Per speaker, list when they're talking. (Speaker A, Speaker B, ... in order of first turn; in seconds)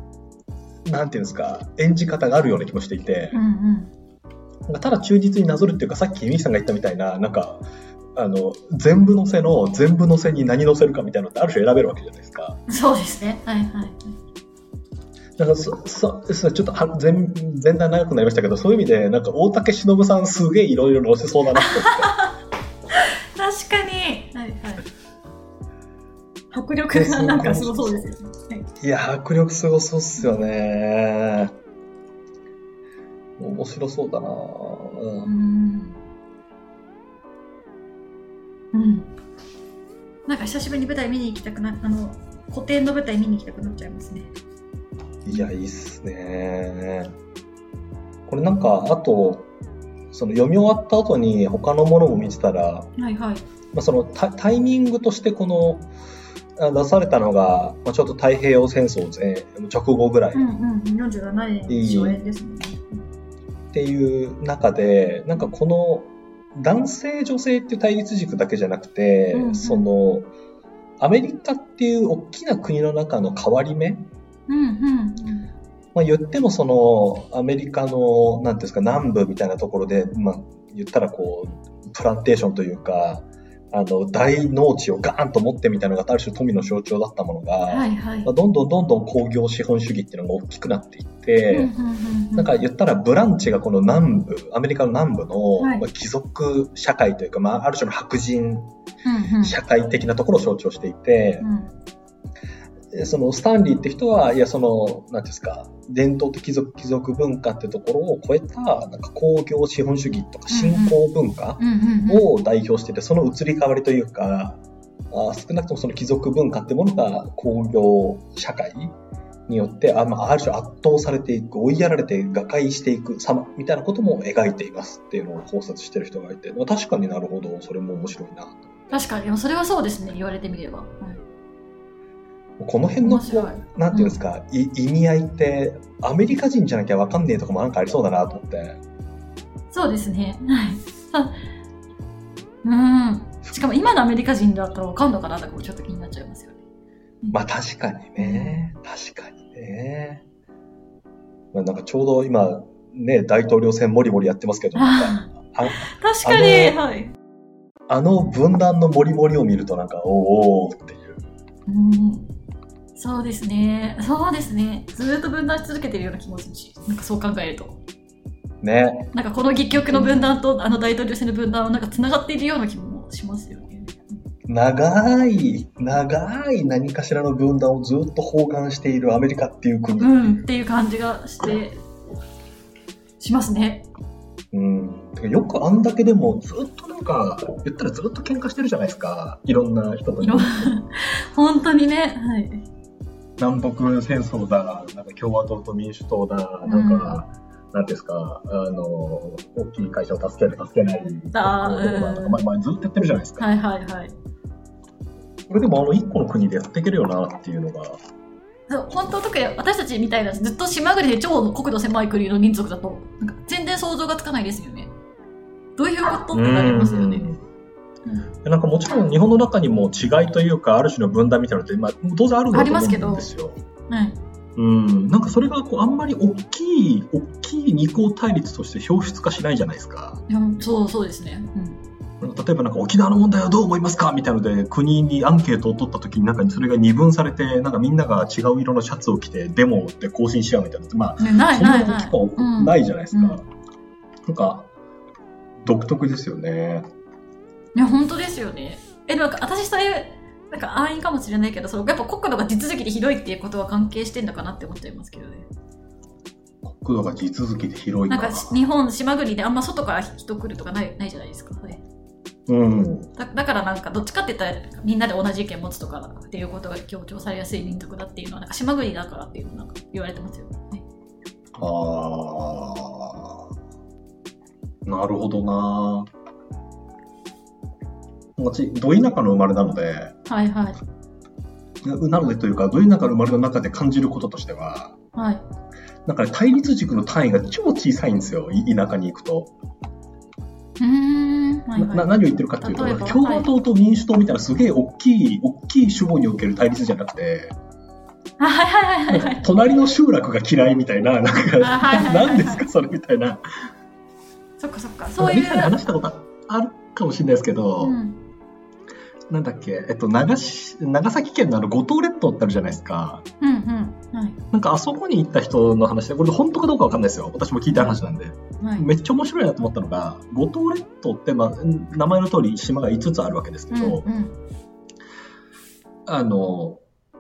Speaker A: 0.9-3.4, 4.7-12.6, 15.4-22.1, 26.9-28.1, 28.8-31.5, 33.4-35.3, 45.2-47.1, 48.3-49.5, 50.1-52.9, 53.7-55.9, 56.6-60.4, 61.7-62.2, 63.7-70.3, 71.0-74.1, 76.0-91.7, 92.3-98.7, 99.4-101.5, 102.9-118.9, 119.5-129.0, 132.6-138.8, 147.3-150.2, 151.5-156.8, 157.9-161.2, 168.6-169.1, 169.7-170.4, 174.5-180.4, 184.5-190.7, 193.4-203.6, 205.5-208.0, 216.3-217.4, 218.4-223.6, 224.6-230.2, 232.2-243.5, 244.3-244.7, 245.6-246.9, 256.6-258.5, 262.5-263.1, 271.6-273.5, 274.9-276.1, 278.4-280.1, 281.8-285.0, 286.1-289.5, 291.8-297.5, 299.1-303.4, 305.2-308.0, 309.3-313.2, 314.5-324.1, 326.1-326.8
Speaker B: 3.3-3.9, 12.7-14.1, 21.6-22.4, 22.9-24.9, 26.5-28.7, 35.2-36.0, 38.7-39.1, 40.3-44.3, 53.0-53.5, 60.3-63.0, 69.3-69.9, 74.5-75.5, 87.7-88.3, 91.5-92.5, 95.6-95.9, 99.0-99.6, 101.4-101.7, 110.5-111.0, 111.6-112.3, 128.9-131.2, 133.0-134.2, 139.7-141.4, 142.6-146.6, 148.2-148.6, 154.8-157.1, 161.7-162.3, 163.0-167.8, 169.1-174.0, 180.0-181.8, 183.2-183.9, 190.2-192.7, 196.6-197.2, 201.3-202.4, 203.4-204.1, 208.7-214.9, 215.8-217.3, 222.5-223.3, 223.9-224.2, 230.3-231.8, 241.2-243.4, 247.8-255.5, 258.1-261.8, 263.2-270.8, 280.3-280.8, 285.1-285.4, 290.8-293.5, 298.4-299.4, 301.6-302.7, 304.6-305.8, 307.8-308.2, 313.4-314.4, 317.7-318.0, 318.6-318.9, 323.7-324.4